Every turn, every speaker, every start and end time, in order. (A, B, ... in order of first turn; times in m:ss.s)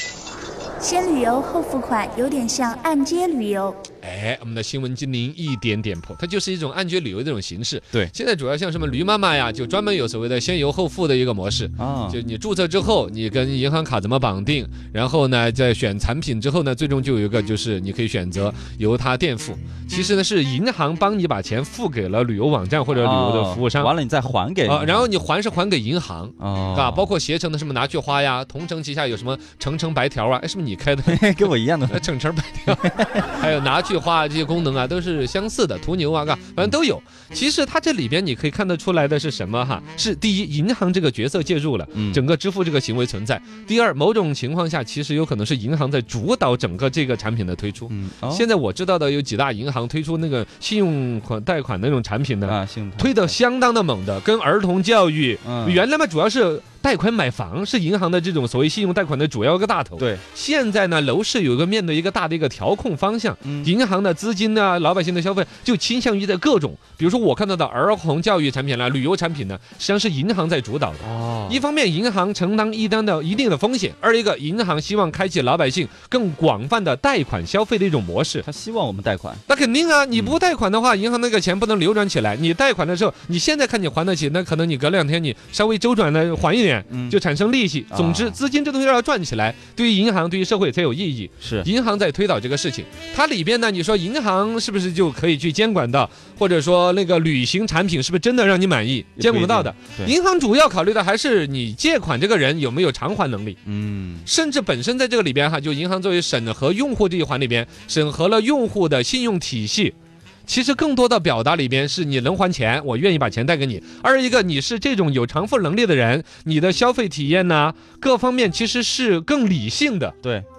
0:00.8-0:03.8 A
0:04.0-0:23.9 B
0:11.8-0:12.2 C
0:22.9-0:25.1 C
0:24.7-1:18.4 B
0:26.4-0:27.1 C
0:31.0-0:32.1 C
0:32.7-0:33.5 C
0:41.9-0:42.2 C
0:47.9-0:48.5 C
0:52.4-0:53.4 C
0:55.4-0:55.8 C
1:00.0-1:00.2 C
1:03.4-1:03.7 C
1:11.0-1:11.6 C
1:18.4-1:19.4 C
1:19.5-1:43.6 B
1:26.9-1:27.2 C
1:27.9-1:28.4 C
1:31.4-1:31.7 C
1:39.2-1:40.1 C
1:43.6-1:44.3 C
1:44.3-1:50.0 B
1:50.5-2:00.2 B